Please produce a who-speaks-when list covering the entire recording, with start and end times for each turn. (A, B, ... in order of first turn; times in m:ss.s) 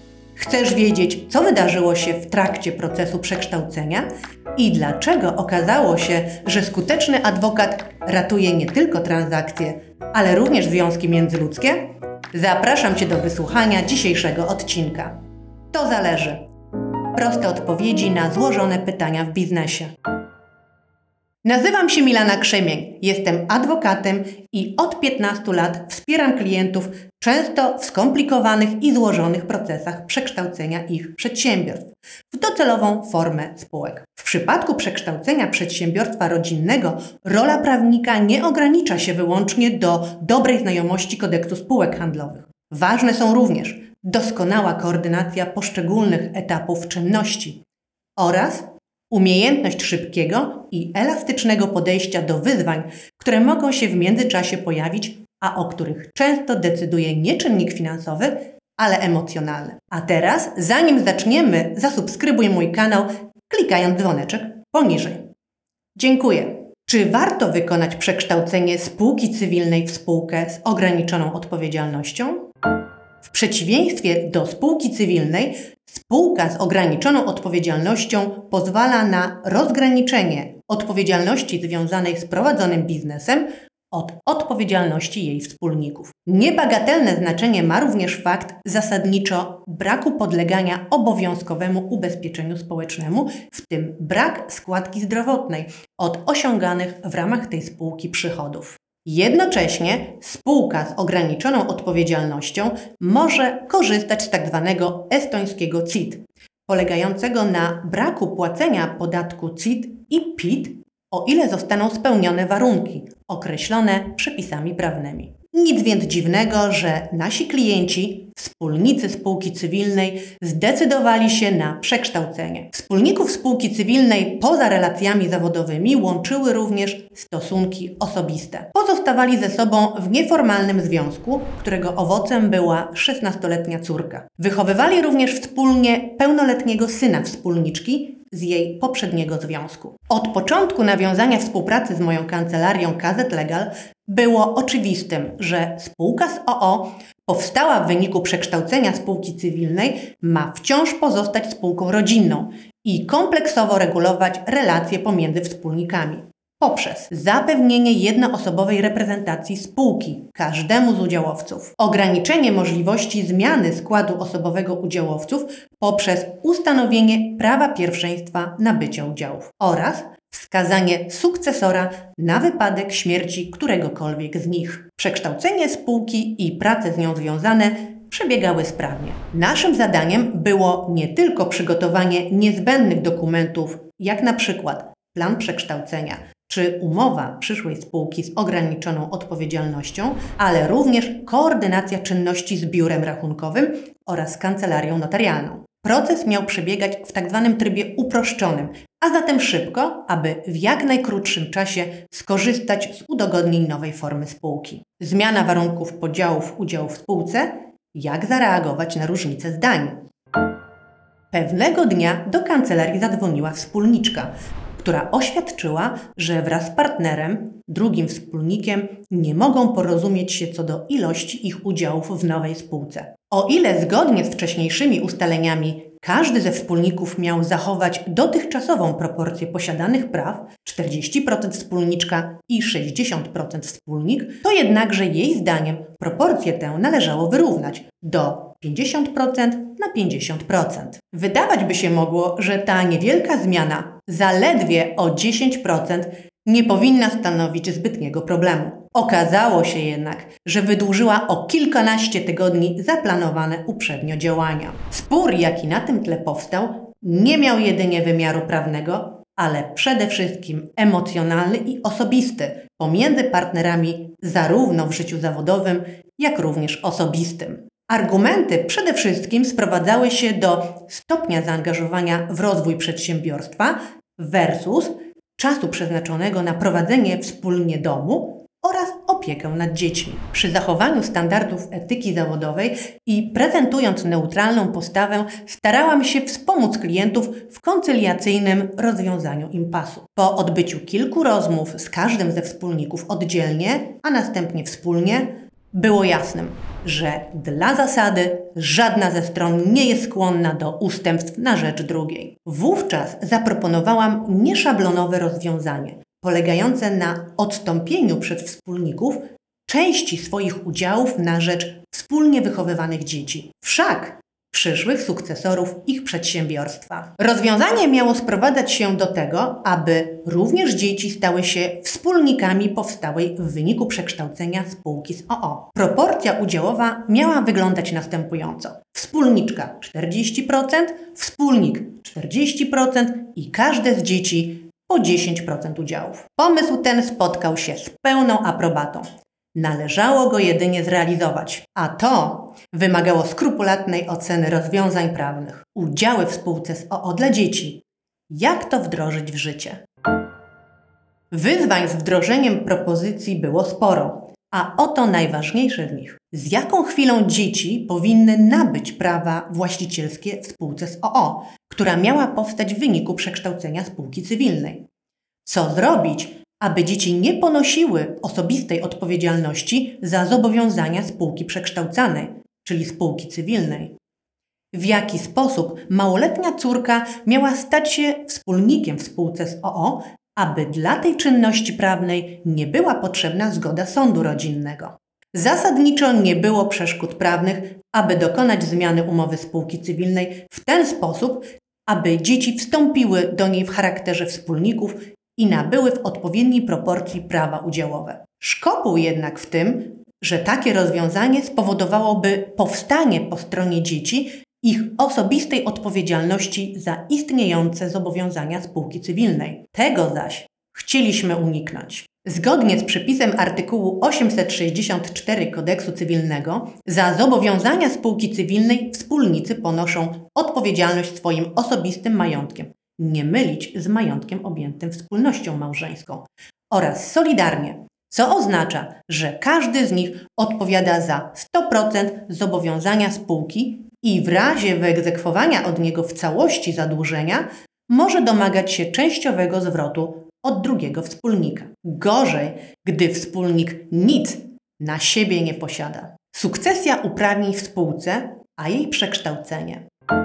0:00.4-0:15.2 A
0:15.7-0:16.5 A
0:17.2-0:19.9 A
0:21.4-0:47.6 A
0:48.2-1:05.3 A
1:06.0-1:12.5 A
1:13.2-3:30.0 A
3:31.3-5:49.8 A
5:51.3-6:04.9 A
6:05.4-6:13.9 A
6:14.7-7:29.8 A